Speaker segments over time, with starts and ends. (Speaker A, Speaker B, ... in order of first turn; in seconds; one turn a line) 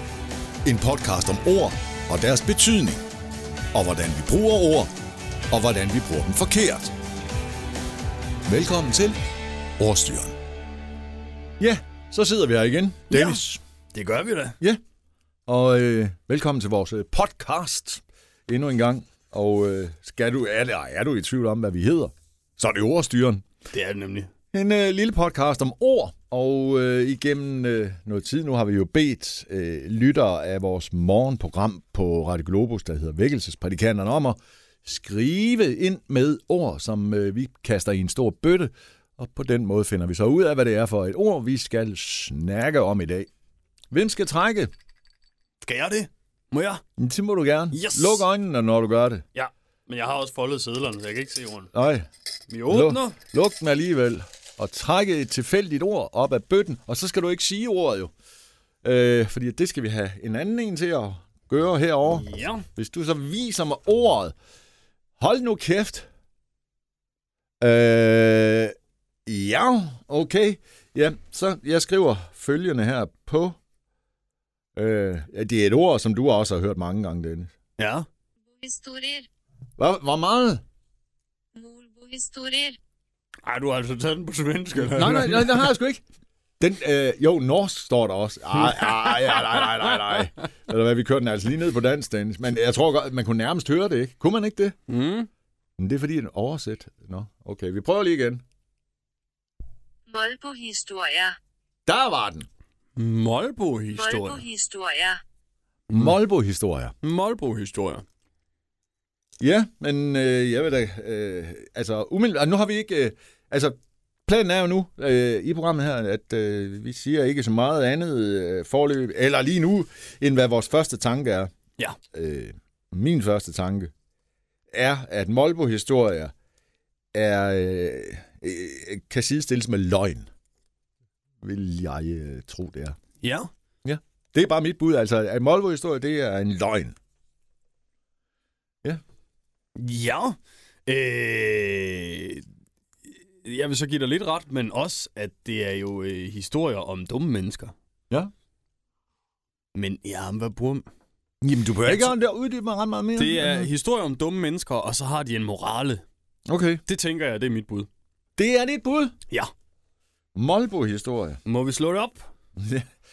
Speaker A: 0.7-3.0
Speaker A: 3.7-4.9
Speaker A: 5.5-6.9
Speaker A: 8.5-9.2
Speaker A: 9.8-10.3
Speaker A: 11.6-13.6
Speaker B: 13.1-13.4
Speaker B: 13.9-14.6
Speaker A: 15.5-23.4
Speaker B: 23.7-24.3
Speaker A: 24.5-43.3
Speaker A: 43.9-44.7
Speaker B: 45.6-46.8
Speaker A: 47.0-49.2
Speaker B: 47.7-48.2
Speaker B: 49.3-51.7
Speaker A: 51.7-52.1
Speaker B: 52.5-53.2
Speaker A: 52.7-58.1
Speaker A: 58.8-64.3
Speaker B: 62.1-62.7
Speaker A: 65.2-66.1
Speaker A: 67.6-68.8
Speaker A: 69.3-73.6
Speaker A: 74.8-77.5
Speaker B: 77.8-78.1
Speaker C: 78.6-79.3
Speaker A: 79.8-80.6
Speaker C: 81.6-82.8
Speaker B: 83.4-85.7
Speaker A: 84.9-86.0
Speaker A: 86.6-94.8
Speaker B: 88.7-90.2
Speaker B: 94.9-95.3
Speaker A: 95.8-98.4
Speaker C: 100.1-101.4
Speaker A: 101.9-102.5
Speaker B: 103.0-104.5
Speaker C: 104.1-105.2
Speaker A: 105.9-107.0
Speaker B: 107.0-108.0
Speaker A: 109.4-121.5
Speaker A: 122.1-123.9
Speaker A: 124.7-126.3
Speaker A: 127.1-130.3
Speaker A: 131.4-133.0
Speaker B: 133.2-133.5
Speaker A: 133.8-137.0
Speaker B: 139.8-142.4
Speaker B: 143.4-147.7
Speaker B: 149.8-150.8
Speaker A: 151.4-153.7
Speaker B: 151.8-152.1
Speaker B: 153.2-156.0
Speaker A: 156.5-156.8
Speaker B: 156.9-157.9
Speaker A: 158.4-159.1
Speaker A: 160.3-161.4
Speaker B: 161.4-162.3
Speaker A: 162.6-162.9